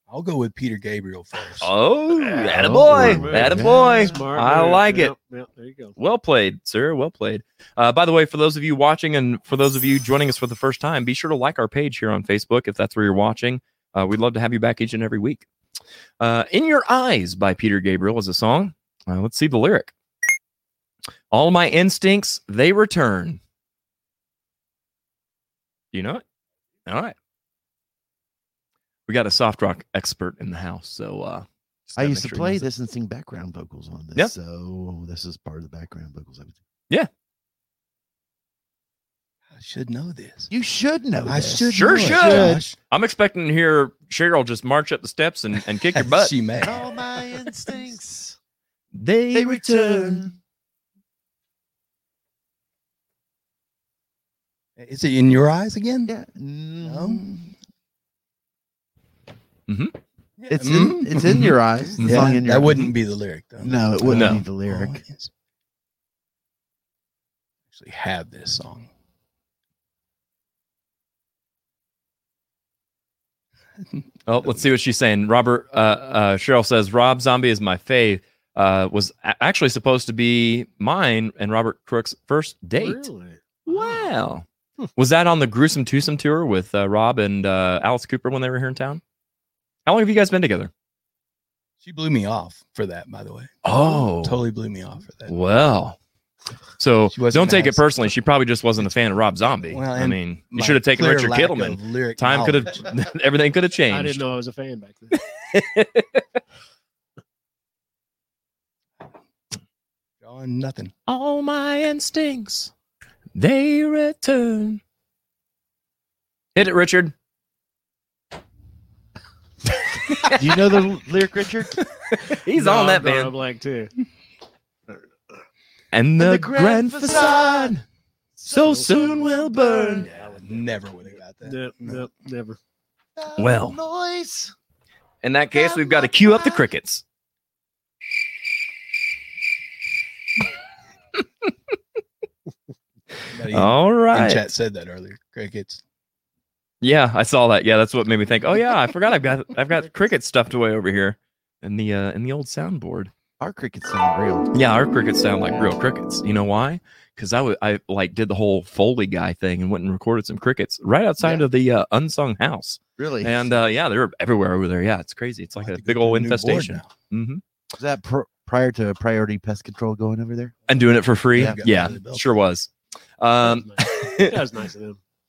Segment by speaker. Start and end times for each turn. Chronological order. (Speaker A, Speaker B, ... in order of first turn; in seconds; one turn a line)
Speaker A: 0.1-1.7
Speaker B: 1.6-5.1
Speaker C: 2.2-6.0
Speaker D: 2.5-4.3
Speaker B: 6.0-15.4
Speaker B: 16.2-19.9
Speaker B: 21.3-23.4
Speaker B: 25.9-26.2
Speaker B: 26.9-27.1
Speaker B: 29.1-32.7
Speaker D: 32.0-36.6
Speaker A: 39.5-40.5
Speaker D: 40.5-42.6
Speaker A: 41.2-42.8
Speaker B: 41.7-46.3
Speaker A: 46.0-46.9
Speaker D: 46.6-48.4
Speaker B: 48.9-50.3
Speaker D: 49.3-50.4
Speaker A: 54.8-56.1
Speaker D: 56.1-57.5
Speaker A: 56.8-57.3
Speaker B: 59.7-60.0
Speaker A: 60.4-61.5
Speaker D: 60.5-62.9
Speaker B: 61.2-62.3
Speaker A: 62.0-65.3
Speaker D: 63.6-65.0
Speaker B: 64.1-64.4
Speaker A: 67.7-68.9
Speaker B: 74.3-83.0
Speaker C: 82.8-84.1
Speaker B: 83.7-84.5
Speaker B: 85.0-89.0
Speaker B: 89.9-90.7
Speaker A: 91.8-95.3
Speaker B: 93.6-94.4
Speaker B: 95.3-96.0
Speaker B: 96.8-104.2
Speaker A: 97.1-97.9
Speaker A: 99.7-102.9
Speaker C: 103.9-105.2
Speaker B: 105.5-106.2
Speaker A: 110.2-110.9
Speaker B: 111.1-112.7
Speaker B: 113.4-114.8
Speaker B: 116.5-117.1
Speaker B: 120.1-120.4
Speaker D: 120.3-121.8
Speaker B: 122.1-123.3
Speaker C: 122.5-123.9
Speaker B: 125.9-127.8
Speaker D: 126.2-127.8
Speaker D: 128.4-130.1
Speaker C: 128.5-129.2
Speaker B: 128.5-130.1
Speaker C: 129.8-132.6
Speaker A: 130.2-132.0
Speaker D: 133.2-134.5
Speaker B: 133.4-133.8
Speaker B: 135.2-137.0
Speaker D: 135.5-136.7
Speaker A: 143.3-145.8
Speaker B: 143.5-144.4
Speaker B: 146.8-153.1
Speaker D: 153.4-154.5
Speaker B: 154.5-167.4
Speaker D: 163.0-163.6
Speaker A: 165.6-166.9
Speaker D: 167.8-170.6
Speaker B: 170.7-174.3
Speaker A: 171.3-172.4
Speaker D: 171.3-171.9
Speaker C: 173.4-175.0